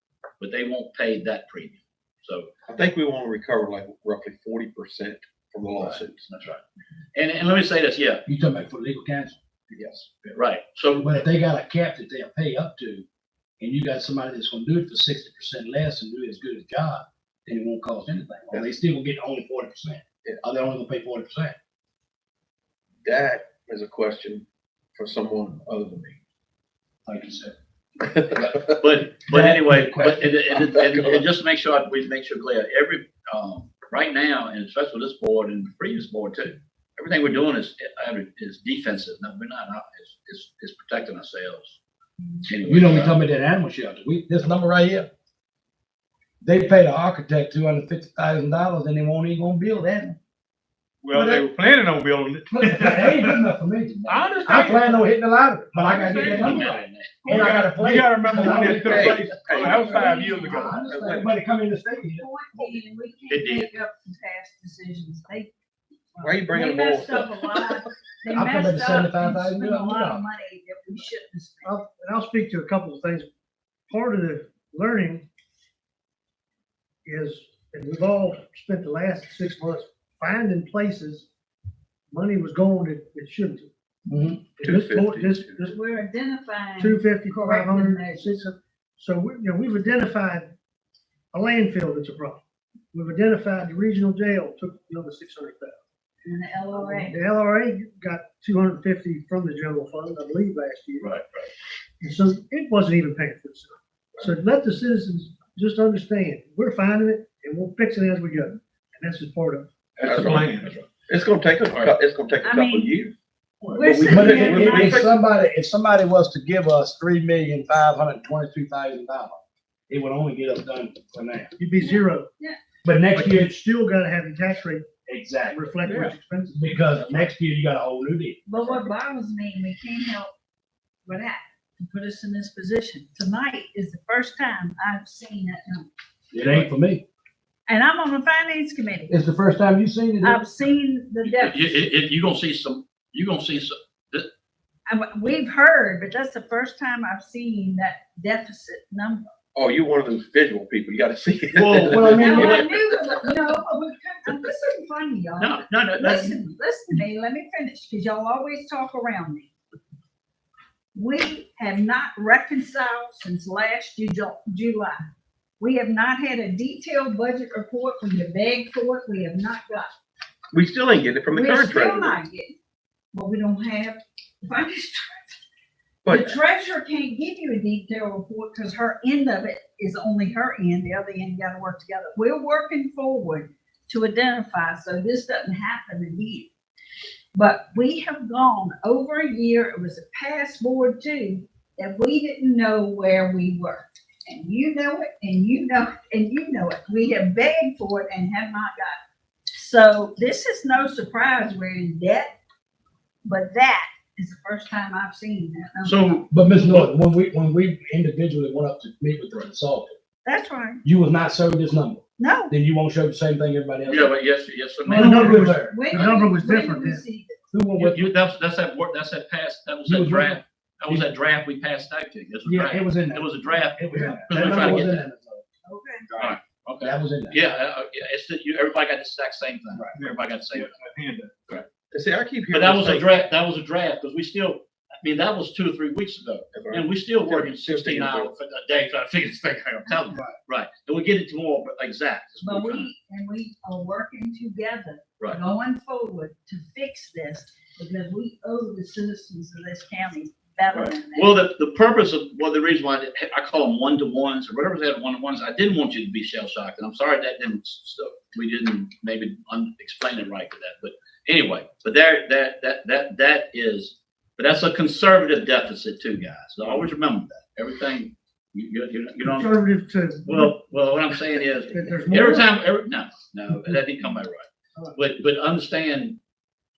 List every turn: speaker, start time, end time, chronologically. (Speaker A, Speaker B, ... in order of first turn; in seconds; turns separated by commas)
Speaker A: 0.4-2.5, Speaker B: 2.7-6.2, Speaker A: 5.8-6.6, Speaker A: 7.1-8.2, Speaker C: 8.2-9.4, Speaker B: 9.7-10.1, Speaker A: 10.3-11.1, Speaker C: 10.9-13.0, Speaker C: 13.6-21.6, Speaker B: 23.0-24.4, Speaker B: 24.9-26.2, Speaker C: 27.1-27.5, Speaker C: 28.3-28.6, Speaker A: 28.7-41.8, Speaker C: 29.3-30.3, Speaker B: 30.8-31.2, Speaker A: 42.4-43.1, Speaker C: 42.6-45.1, Speaker C: 46.4-50.2, Speaker D: 51.0-53.4, Speaker C: 51.1-51.5, Speaker C: 52.5-62.2, Speaker D: 54.0-55.1, Speaker D: 55.8-60.8, Speaker A: 55.9-57.5, Speaker E: 57.2-57.7, Speaker B: 58.8-60.2, Speaker E: 59.6-61.2, Speaker B: 60.8-61.3, Speaker E: 62.0-65.5, Speaker A: 63.3-63.8, Speaker E: 66.1-71.8, Speaker B: 66.2-67.8, Speaker C: 68.3-70.2, Speaker F: 71.6-73.3, Speaker F: 73.9-75.2, Speaker F: 77.0-81.2, Speaker F: 82.1-83.7, Speaker C: 84.0-84.4, Speaker F: 84.6-85.7, Speaker B: 84.6-85.7, Speaker E: 85.6-88.4, Speaker F: 86.8-90.5, Speaker F: 91.3-92.4, Speaker F: 92.9-95.8, Speaker E: 96.2-97.2, Speaker F: 96.7-101.1, Speaker A: 101.0-101.5, Speaker F: 102.0-109.7, Speaker D: 110.0-110.9, Speaker B: 110.0-113.1, Speaker E: 112.4-112.9, Speaker E: 113.7-115.0, Speaker B: 113.8-115.2, Speaker C: 114.0-121.5, Speaker F: 121.6-122.3, Speaker E: 121.8-122.6, Speaker C: 122.8-123.6, Speaker F: 123.1-124.9, Speaker C: 125.0-128.4, Speaker F: 125.5-126.8, Speaker B: 125.8-126.1, Speaker B: 126.9-127.2, Speaker E: 128.4-130.3, Speaker E: 131.1-135.9, Speaker C: 136.3-137.0, Speaker A: 136.4-136.7, Speaker E: 137.7-139.1, Speaker C: 139.1-140.4, Speaker E: 140.2-141.8, Speaker A: 141.2-144.3, Speaker E: 144.9-149.3, Speaker B: 149.6-153.3, Speaker A: 151.5-152.7, Speaker C: 151.9-152.6, Speaker E: 152.0-159.5, Speaker A: 155.4-156.4, Speaker E: 160.9-164.9, Speaker E: 165.6-169.9, Speaker B: 170.5-172.2, Speaker E: 171.3-172.5, Speaker E: 173.1-175.3, Speaker B: 176.0-176.4, Speaker E: 176.1-186.5, Speaker E: 187.3-199.0, Speaker E: 199.5-202.3, Speaker E: 203.2-206.2, Speaker A: 205.8-206.9, Speaker C: 206.3-210.0, Speaker E: 210.2-210.8, Speaker C: 210.8-214.1, Speaker E: 212.2-212.5, Speaker A: 213.9-215.6, Speaker F: 214.8-217.0, Speaker C: 214.9-215.8, Speaker E: 215.6-217.3, Speaker C: 217.5-218.1, Speaker A: 217.8-225.1, Speaker C: 219.8-221.1, Speaker C: 222.4-225.4, Speaker E: 225.7-226.1, Speaker D: 226.1-226.3, Speaker A: 226.2-230.7, Speaker C: 226.8-227.4, Speaker D: 229.9-231.5, Speaker B: 231.9-233.1, Speaker A: 232.5-242.9, Speaker B: 236.5-238.3, Speaker E: 242.4-251.4, Speaker A: 250.7-269.5, Speaker F: 269.2-270.5, Speaker A: 270.2-276.2, Speaker F: 271.7-272.5